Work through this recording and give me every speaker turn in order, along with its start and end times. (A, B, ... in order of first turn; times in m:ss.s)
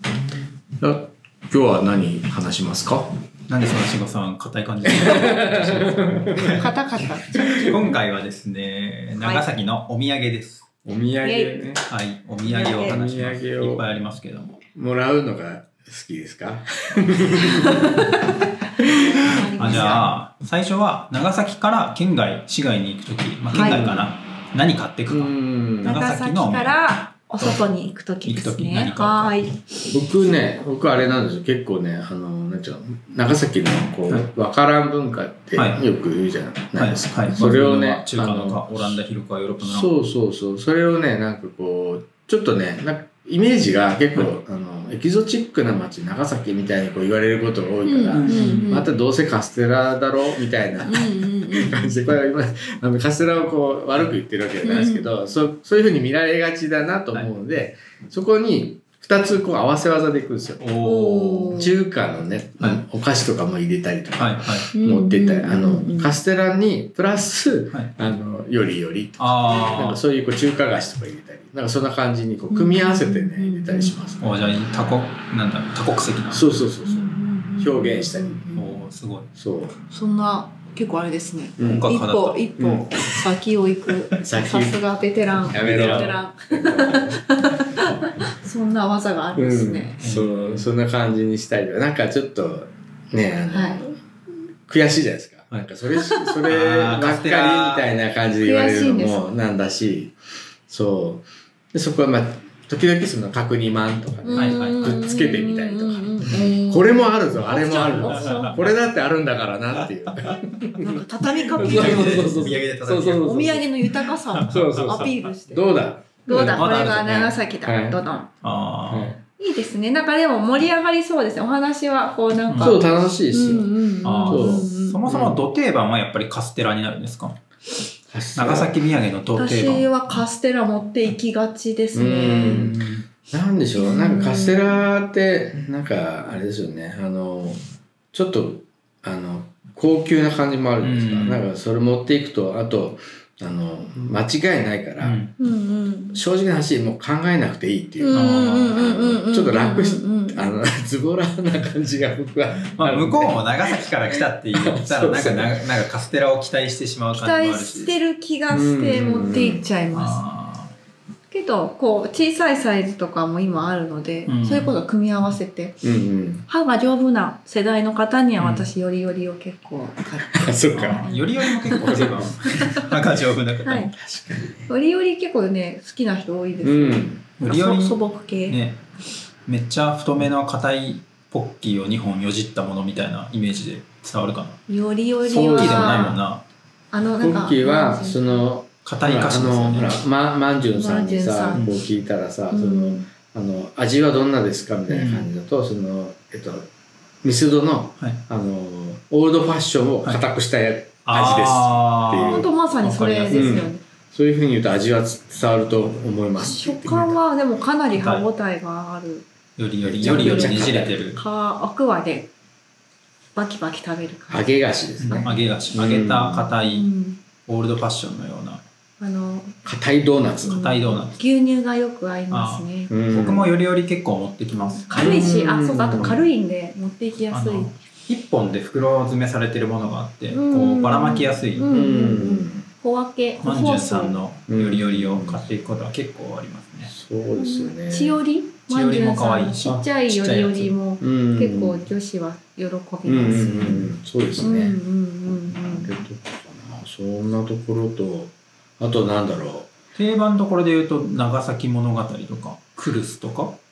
0:00.8-0:03.2 A
0:03.5-0:06.7 B
0:04.8-0:06.7 A
0:06.6-0:07.7 C
0:07.3-0:08.0 A
0:07.4-0:10.7 B
0:09.2-0:09.4 C
0:10.8-0:11.8 A
0:11.2-0:11.7 C
0:11.9-0:14.6 B
0:12.5-0:13.8 A
0:12.5-0:12.9 C
0:14.7-0:20.0 A
0:17.4-0:18.1 C
0:18.8-0:20.1 C
0:19.6-0:27.6 B
0:23.5-0:24.1 A
0:23.6-0:23.8 C
0:25.1-0:26.0 A
0:25.8-0:30.1 C
0:28.2-0:29.4 B
0:29.9-0:39.0 A
0:35.6-0:35.8 B
0:36.8-0:39.9 B
0:39.6-1:00.7 A
0:47.8-0:48.9 C
0:48.1-0:48.7 B
0:50.9-0:51.9 C
0:54.6-0:55.1 C
1:00.6-1:01.6 B
1:00.8-1:01.8 C
1:01.5-1:14.3 A
1:04.2-1:04.7 B
1:04.7-1:06.2 C
1:09.2-1:10.0 B
1:12.5-1:14.0 C
1:14.2-1:16.5 B
1:16.3-1:18.5 A
1:16.9-1:18.7 C
1:18.6-1:19.3 B
1:19.4-1:19.8 A
1:19.9-1:30.0 C
1:21.6-1:21.9 A
1:21.6-1:23.0 B
1:22.6-1:22.9 A
1:24.1-1:24.8 A
1:25.5-1:27.2 A
1:25.5-1:26.2 B
1:29.4-1:34.0 A
1:30.0-1:30.7 B
1:33.5-1:33.8 C
1:34.6-1:51.0 A
1:36.5-1:37.9 B
1:38.4-1:39.3 C
1:44.2-1:48.6 C
1:44.3-1:45.0 B
1:47.8-1:48.6 B
1:50.8-1:52.6 C
1:51.4-1:55.3 B
1:51.6-1:53.7 A
1:53.2-1:55.7 C
1:54.4-1:58.0 A
1:56.3-1:58.3 C
1:56.3-1:57.4 B
1:58.4-1:59.2 B
1:58.9-1:59.2 A
1:59.4-2:05.0 C
2:02.5-2:02.8 B
2:02.6-2:03.7 A
2:04.0-2:07.4 B
2:04.3-2:05.4 A
2:08.1-2:08.7 A
2:08.4-2:09.9 B
2:09.4-2:12.7 C
2:11.9-2:17.6 A
2:12.4-2:13.0 B
2:13.8-2:14.8 C
2:18.1-2:25.3 A
2:20.8-2:21.4 B
2:25.0-2:25.3 B
2:25.4-2:26.2 C
2:26.1-2:35.7 A
2:28.0-2:30.4 C
2:28.1-2:28.8 B
2:32.8-2:37.9 B
2:37.1-2:40.2 C
2:38.5-2:39.6 A
2:39.9-2:40.7 B
2:41.3-2:45.8 C
2:44.3-2:44.8 B
2:45.8-2:46.4 A
2:46.5-2:52.9 C
2:48.4-2:48.7 B
2:50.3-2:51.1 A
2:50.7-2:54.0 B
2:51.7-2:52.8 A
2:53.6-2:53.9 C
2:54.0-2:54.7 A
2:54.7-2:58.6 C
2:56.6-2:57.2 A
2:57.4-2:58.8 B
2:59.5-3:04.6 B
3:04.7-3:06.2 C
3:05.2-3:06.2 A
3:05.5-3:06.4 B
3:06.9-3:08.5 C
3:07.2-3:16.7 A
3:08.8-3:10.0 B
3:10.7-3:11.6 C
3:11.6-3:11.8 B
3:12.5-3:13.1 C
3:14.9-3:15.3 B
3:17.2-3:22.5 A
3:21.1-3:23.6 B
3:22.3-3:23.8 C
3:23.3-3:27.2 A
3:26.4-3:29.2 C
3:27.9-3:28.2 B
3:29.6-3:31.2 B
3:29.8-3:31.1 A
3:30.0-3:32.3 C
3:33.4-3:34.5 C
3:34.3-3:36.5 A
3:35.0-3:36.9 B
3:35.1-3:35.4 C
3:36.6-3:37.2 C
3:37.5-3:38.6 B
3:39.0-3:39.6 C
3:39.6-3:41.0 A
3:40.4-3:41.2 B
3:40.4-3:42.9 C
3:42.3-3:45.2 B
3:42.9-3:43.5 A
3:44.5-3:47.7 C
3:45.0-3:46.3 A
3:47.3-3:51.7 B
3:50.3-3:54.2 C
3:51.7-3:52.7 A
3:53.4-3:56.9 B
3:54.5-3:55.5 A
3:56.9-3:58.2 A
3:57.4-4:03.9 C
3:58.7-4:00.7 B
4:01.0-4:01.9 A
4:03.0-4:04.8 A
4:04.4-4:05.9 C
4:05.3-4:09.7 A
4:10.0-4:13.6 B